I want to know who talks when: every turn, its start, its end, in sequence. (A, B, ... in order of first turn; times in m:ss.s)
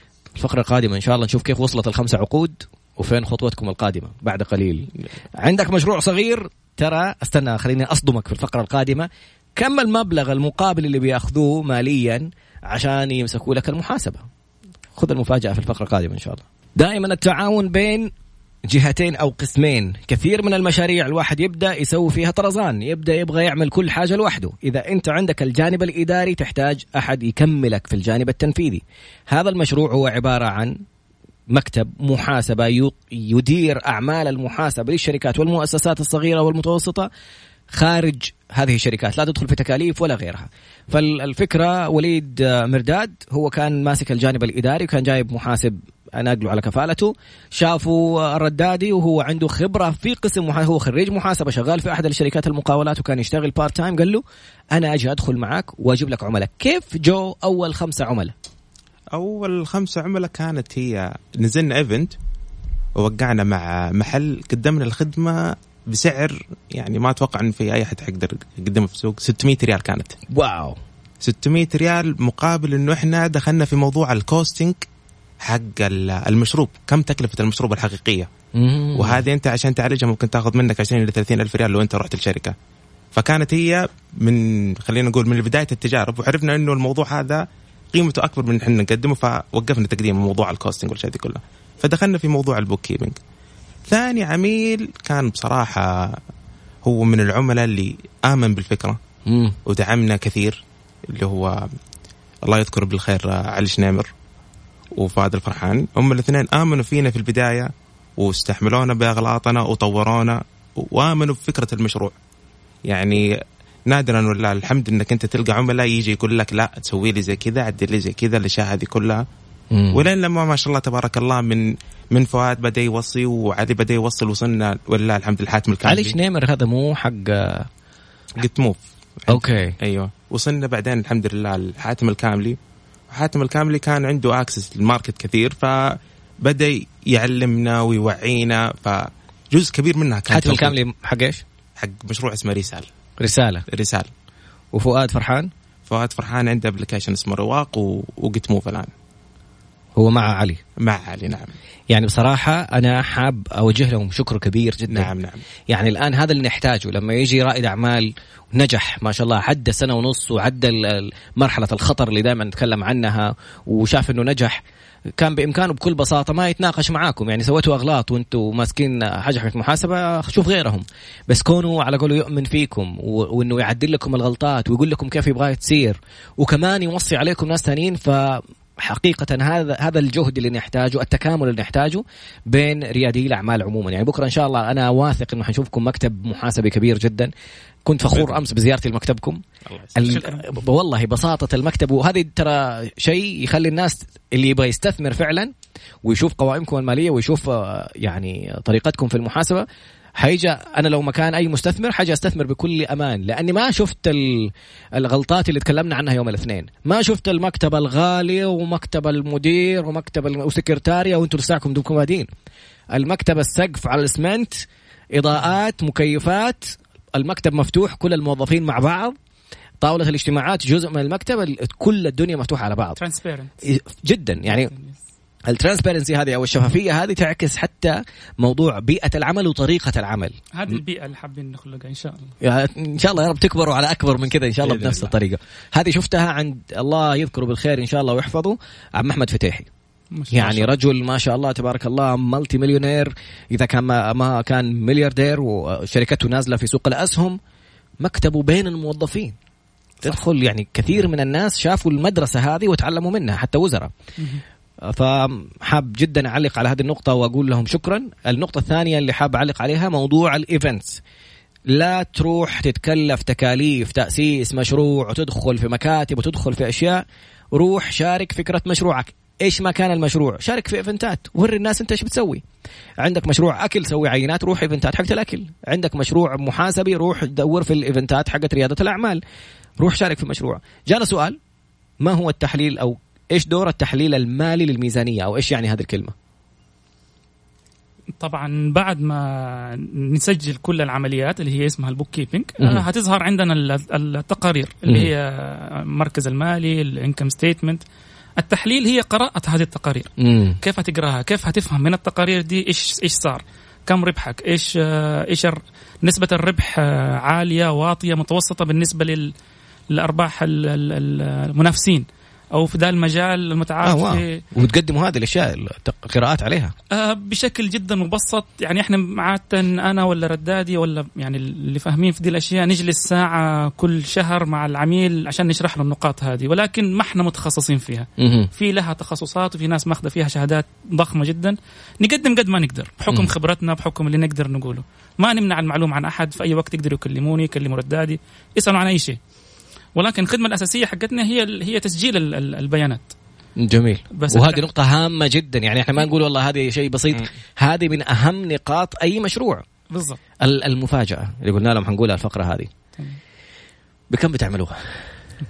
0:00.4-0:14.2 A
0:14.9-0:18.1 A
0:18.7-0:30.8 A
0:31.5-0:37.1 A
0:37.7-0:54.2 A
0:54.7-0:58.3 A
0:59.1-1:02.1 B
1:03.0-1:10.2 B
1:10.3-1:10.8 A
1:11.2-1:14.8 B
1:15.4-1:18.3 B
1:18.5-1:19.2 A
1:18.9-1:22.5 B
1:23.1-1:33.2 B
1:33.9-1:36.2 B
1:36.8-1:39.0 B
1:39.2-1:39.6 A
1:39.6-1:41.7 B
1:42.4-1:44.1 B
1:44.9-1:52.2 B
1:52.8-1:53.3 B
1:53.9-1:59.2 B
1:59.7-2:00.0 A
1:59.9-2:06.2 B
2:05.8-2:07.7 A
2:08.4-2:12.6 B
2:09.3-2:09.7 A
2:13.1-2:20.8 B
2:20.3-2:21.4 A
2:21.8-2:22.9 B
2:23.2-2:23.6 A
2:23.7-2:24.1 B
2:24.7-2:25.5 A
2:25.9-2:28.9 B
2:30.0-2:30.6 A
2:30.8-2:31.5 B
2:31.9-2:35.1 A
2:34.9-2:35.4 B
2:35.7-2:44.6 A
2:45.2-3:07.3 A
3:07.8-3:09.4 A
3:09.7-3:10.2 B
3:09.9-3:15.5 A
3:16.0-3:19.6 A
3:20.2-3:32.3 A
3:32.9-3:39.2 A
3:39.8-3:43.0 A
3:43.0-3:43.5 C
3:43.6-3:44.7 A
3:44.4-3:45.0 C
3:45.5-3:50.4 A
3:50.5-3:52.3 C
3:52.4-3:59.7 A
4:00.1-4:00.8 C
4:00.3-4:07.4 A
4:08.0-4:09.3 A
4:10.0-4:13.9 A
4:14.9-4:21.0 A
4:21.7-4:32.4 A
4:33.0-4:39.2 A
4:39.8-4:41.4 A
4:42.0-4:46.1 A
4:48.2-4:57.8 C
4:52.6-4:52.8 A
4:58.4-5:09.3 C
5:00.2-5:00.6 A
5:09.9-5:14.4 C
5:13.8-5:16.7 A
5:16.9-5:39.2 C
5:28.2-5:28.5 A
5:40.0-5:43.0 C
5:43.6-5:49.6 A
5:44.1-5:44.6 C
5:49.9-5:50.2 C
5:50.4-5:52.7 A
5:54.1-5:54.8 A